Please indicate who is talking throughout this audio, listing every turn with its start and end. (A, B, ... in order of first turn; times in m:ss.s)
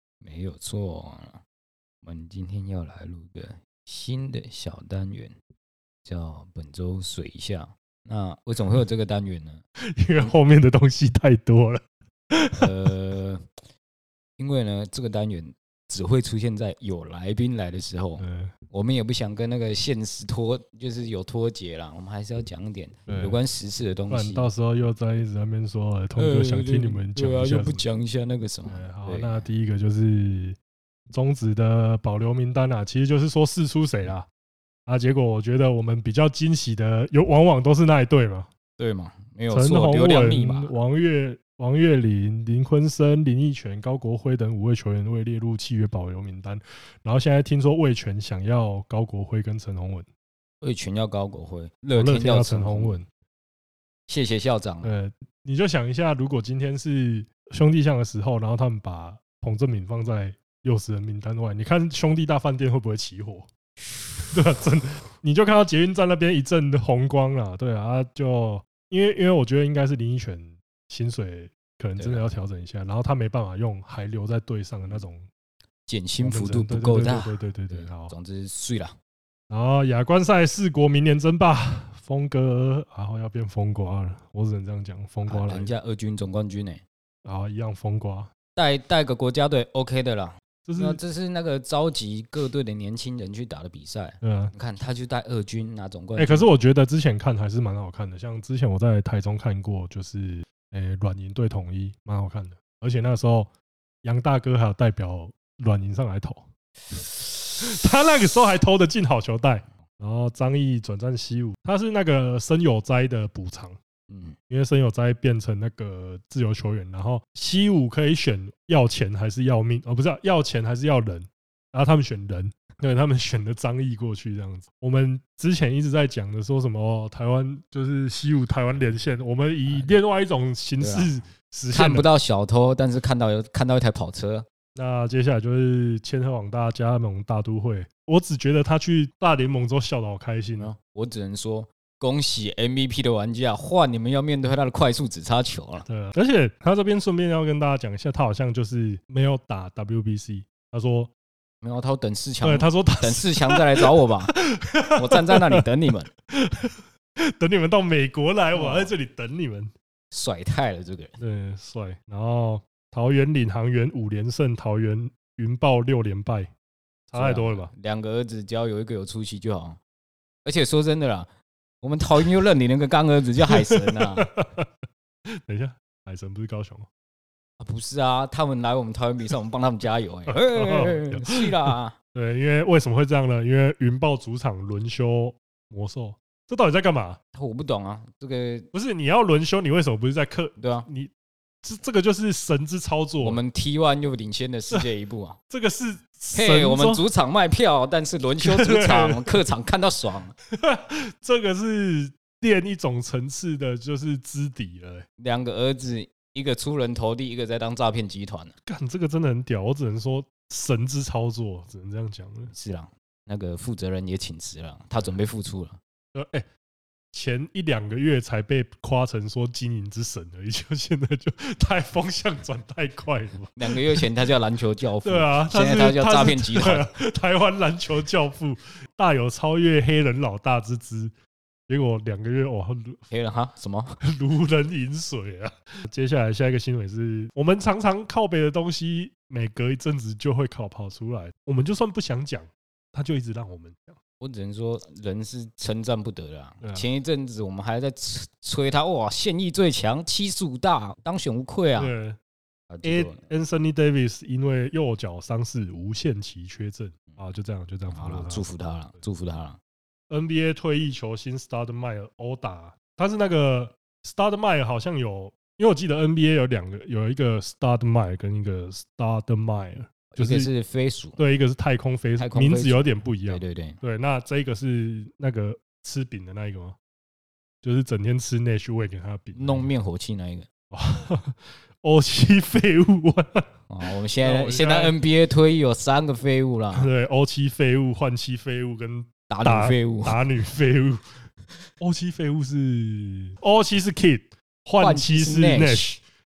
0:00.2-0:01.4 A
0:02.0-0:05.3 A
0:06.0-0:09.6 A
0:09.8-0:12.7 B
0:12.6-0:13.4 A
0:14.4-0:24.5 A
0:18.2-0:18.5 B
0:23.1-0:23.4 B
0:24.1-0:27.8 B
0:26.2-0:29.4 A
0:28.7-0:30.6 B
0:31.1-0:34.3 B
0:34.9-0:38.5 B
0:38.8-0:40.7 A
0:39.5-0:50.1 B
0:50.6-0:53.0 A
0:51.9-0:53.1 B
0:54.1-0:54.9 A
0:54.8-1:03.5 B
1:04.3-1:15.3 B
1:12.0-1:12.3 A
1:15.9-1:19.0 A
1:16.2-1:18.1 B
1:19.5-1:25.7 B
1:25.3-1:26.8 A
1:27.2-1:28.3 B
1:28.6-1:36.5 A
1:30.7-1:31.0 B
1:34.2-1:34.5 B
1:36.2-1:43.5 B
1:44.0-1:46.5 B
1:47.6-1:53.8 B
1:54.1-1:54.4 A
1:54.5-2:12.1 B
2:10.8-2:11.2 A
2:11.7-2:14.5 A
2:14.8-2:20.7 B
2:20.6-2:25.9 A
2:25.9-2:31.1 B
2:31.6-2:34.3 A
2:32.4-2:35.6 B
2:35.0-2:36.1 A
2:36.3-2:39.7 B
2:38.5-2:38.9 A
2:40.1-2:41.2 A
2:41.2-2:46.5 B
2:47.1-2:47.7 B
2:47.2-2:49.8 A
2:50.4-2:51.3 A
2:51.8-2:54.3 A
2:53.5-2:54.7 B
2:55.3-2:56.9 B
2:57.6-3:02.0 A
3:00.3-3:07.2 B
3:07.4-3:08.7 A
3:08.7-3:11.1 B
3:10.6-3:10.9 A
3:11.6-3:13.4 B
3:13.2-3:15.4 A
3:15.5-3:17.0 B
3:16.3-3:20.4 A
3:18.4-3:19.4 B
3:20.5-3:25.1 B
3:25.2-3:28.5 A
3:28.7-3:32.5 B
3:32.5-3:35.8 A
3:36.1-3:36.5 B
3:37.1-3:44.1 B
3:43.6-3:46.9 A
3:45.0-3:51.1 B
3:51.7-3:53.0 B
3:53.1-3:54.0 A
3:54.0-4:04.0 B
4:04.2-4:11.9 A
4:06.6-4:06.9 B
4:11.8-4:12.2 B
4:12.7-4:13.2 A
4:12.8-4:18.5 B
4:17.9-4:19.6 A
4:20.1-4:30.5 B
4:30.1-4:31.2 A
4:31.2-4:36.8 B
4:32.2-4:33.8 A
4:37.6-4:39.7 B
4:39.3-4:40.5 A
4:40.7-4:43.5 B
4:43.7-4:46.9 A
4:44.2-4:44.9 B
4:46.8-4:51.2 B
4:49.3-4:50.2 A
4:51.8-4:56.0 B
4:54.8-4:55.8 A